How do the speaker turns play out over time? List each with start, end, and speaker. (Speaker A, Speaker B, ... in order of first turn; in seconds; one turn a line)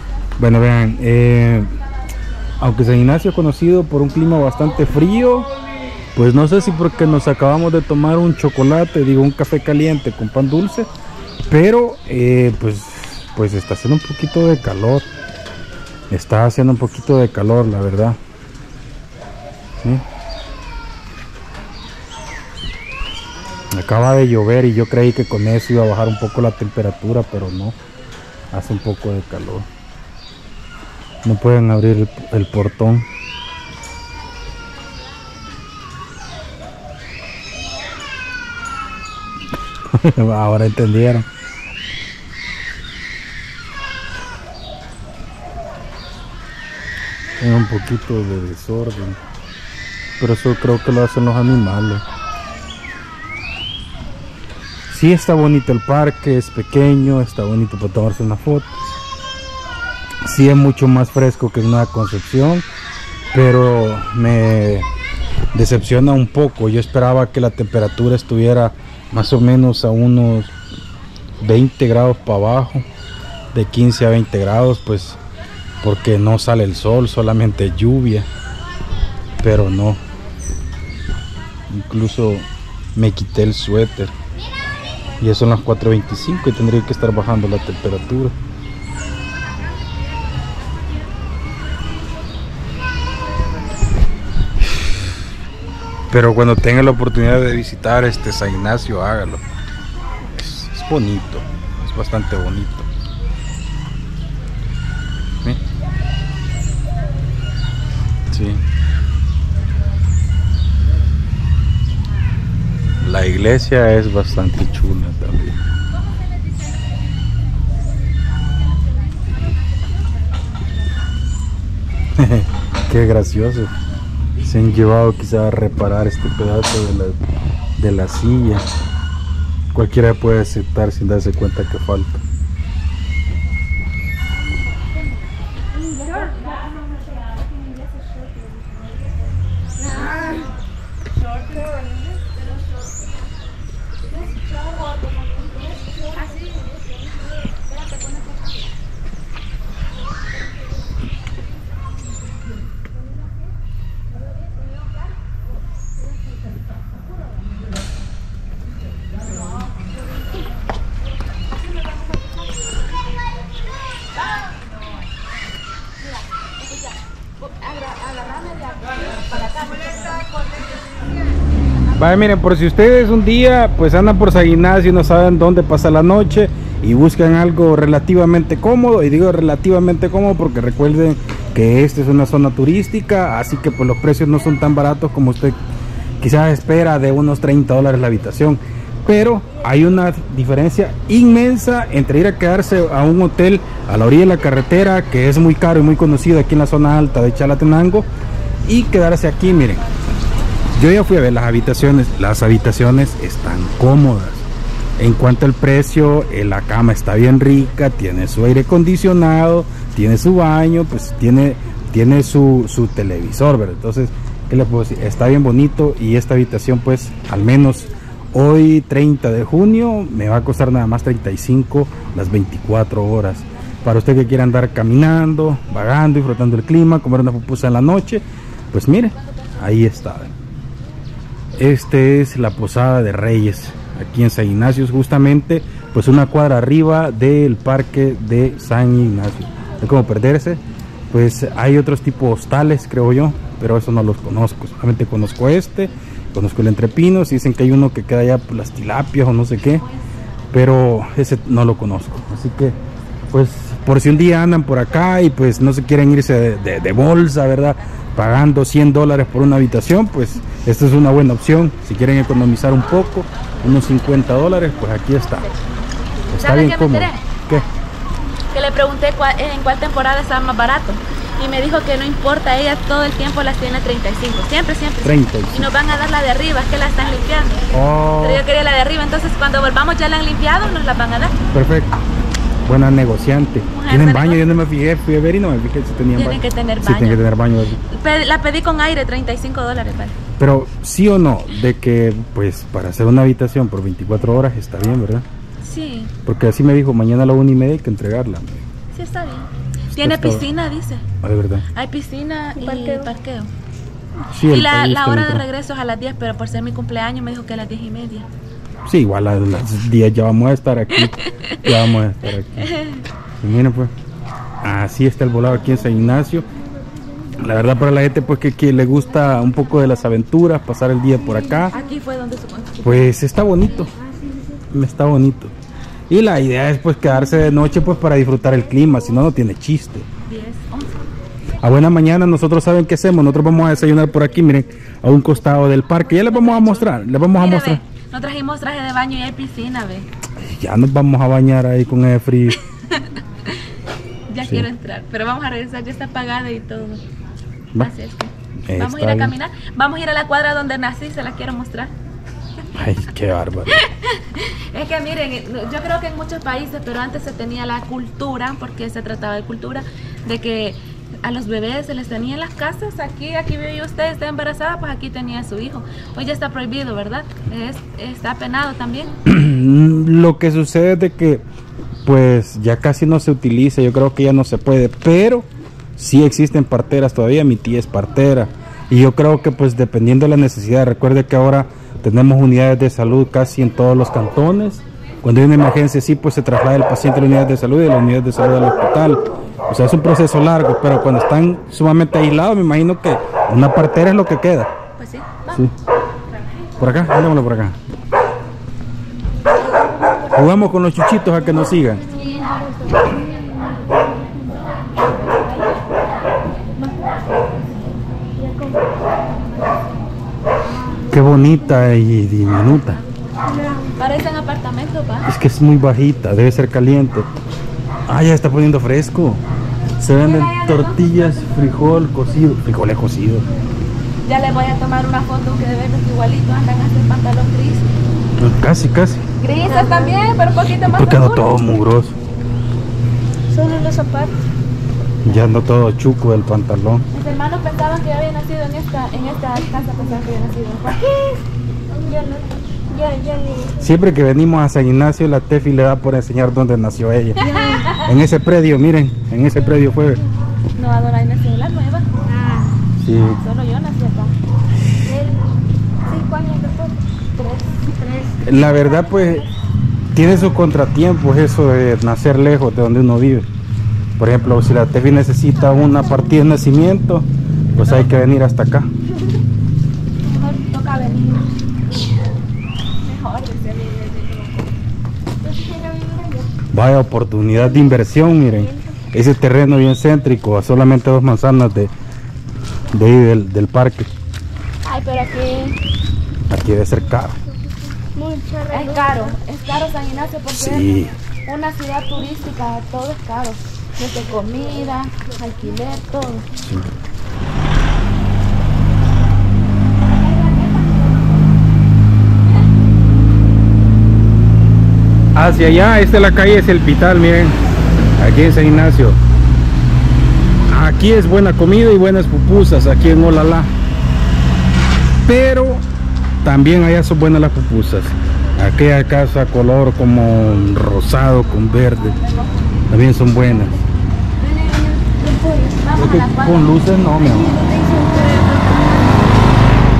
Speaker A: 0.4-1.8
Speaker A: 2.6-5.5
Speaker A: 6.1-10.9
Speaker A: 11.5-15.1
Speaker A: 16.1-18.2
Speaker A: 23.7-27.8
Speaker A: 28.5-29.7
Speaker A: 31.2-33.0
Speaker A: 39.9-41.3
Speaker A: 47.4-49.2
Speaker A: 50.2-52.0
Speaker A: 54.9-58.7
Speaker A: 60.2-62.6
Speaker A: 63.3-64.9
Speaker A: 65.5-70.5
Speaker A: 71.4-72.8
Speaker A: 73.5-75.2
Speaker A: 75.8-78.3
Speaker A: 79.4-80.0
Speaker A: 81.7-84.1
Speaker A: 85.2-88.3
Speaker A: 96.1-99.4
Speaker A: 100.2-102.9
Speaker A: 108.3-108.6
Speaker A: 113.0-115.6
Speaker A: 122.2-123.7
Speaker A: 124.4-127.2
Speaker A: 127.8-128.6
Speaker A: 129.7-132.2
Speaker B: 136.1-136.6
Speaker B: 139.9-140.4
Speaker C: 140.0-140.3
Speaker B: 141.2-141.7
Speaker C: 144.4-146.1
Speaker B: 146.1-146.7
Speaker B: 147.7-148.5
Speaker B: 166.2-170.6
Speaker A: 171.9-185.6
Speaker A: 186.2-198.1
Speaker A: 198.6-199.8
Speaker A: 200.7-204.5
Speaker A: 205.0-230.3
Speaker A: 231.6-249.9
Speaker A: 250.5-252.8
Speaker A: 253.3-265.6
Speaker A: 266.3-267.7
Speaker B: 266.4-267.2
Speaker B: 268.5-281.4
Speaker A: 275.0-275.6
Speaker A: 277.7-278.4
Speaker A: 281.5-282.0
Speaker A: 282.6-287.8
Speaker B: 283.7-284.6
Speaker B: 286.1-287.2
Speaker B: 287.9-290.1
Speaker A: 290.4-295.2
Speaker B: 295.6-296.1
Speaker A: 296.2-298.5
Speaker B: 298.9-301.0
Speaker A: 299.9-300.4
Speaker A: 301.2-301.6
Speaker B: 301.7-303.5
Speaker C: 302.6-303.1
Speaker A: 304.3-305.4
Speaker B: 304.5-308.3
Speaker A: 308.9-312.7
Speaker B: 311.4-311.7
Speaker B: 312.6-313.0
Speaker A: 313.4-313.9
Speaker A: 314.6-316.5
Speaker A: 317.4-321.7
Speaker B: 321.7-323.1
Speaker A: 322.8-323.9
Speaker C: 324.2-324.6
Speaker A: 324.7-325.5
Speaker A: 326.1-330.1
Speaker B: 330.3-331.0
Speaker A: 331.6-337.8
Speaker B: 336.2-340.1
Speaker A: 340.4-342.6
Speaker B: 342.9-343.2
Speaker B: 344.3-347.0
Speaker B: 347.8-351.9
Speaker A: 348.7-349.3
Speaker A: 352.7-353.8
Speaker B: 353.7-369.1
Speaker A: 369.2-371.4
Speaker A: 372.0-394.7
Speaker B: 395.0-395.6
Speaker A: 396.8-397.8
Speaker C: 399.5-400.4
Speaker A: 400.3-402.1
Speaker C: 401.5-404.6
Speaker B: 405.1-406.0
Speaker C: 406.8-407.4
Speaker C: 408.3-410.1
Speaker C: 410.7-411.1
Speaker A: 411.1-413.0
Speaker C: 413.4-413.9
Speaker B: 414.0-415.3
Speaker A: 415.2-417.3
Speaker A: 418.1-419.4
Speaker A: 420.0-423.4
Speaker B: 420.2-421.7
Speaker B: 424.2-427.9
Speaker A: 428.4-429.2
Speaker B: 429.4-431.5
Speaker C: 429.7-430.1
Speaker A: 430.8-432.1
Speaker C: 433.5-434.4
Speaker A: 435.2-437.0
Speaker B: 437.1-441.4
Speaker C: 441.9-443.8
Speaker A: 443.8-450.2
Speaker C: 447.4-447.9
Speaker B: 450.7-452.1
Speaker C: 452.2-452.8
Speaker A: 453.0-453.4
Speaker B: 453.4-454.3
Speaker C: 455.0-457.1
Speaker B: 457.3-457.9
Speaker C: 457.9-459.3
Speaker A: 458.4-459.5
Speaker A: 460.1-463.5
Speaker A: 464.2-468.9
Speaker B: 467.8-468.2
Speaker B: 470.2-471.5
Speaker B: 473.0-474.7
Speaker C: 475.4-476.5
Speaker A: 476.7-481.9
Speaker C: 478.5-478.9
Speaker A: 482.9-484.1
Speaker B: 484.8-485.8
Speaker A: 486.5-487.4
Speaker C: 488.1-489.3
Speaker B: 488.7-496.4
Speaker A: 490.5-491.1
Speaker A: 496.6-496.9
Speaker B: 500.1-501.5
Speaker A: 505.3-507.6
Speaker A: 508.2-509.2
Speaker A: 510.7-513.7
Speaker A: 515.2-515.8
Speaker A: 516.4-522.2
Speaker B: 521.9-522.9
Speaker A: 522.9-523.8
Speaker C: 524.4-525.8
Speaker B: 525.8-526.7
Speaker A: 525.9-527.5
Speaker C: 527.2-529.3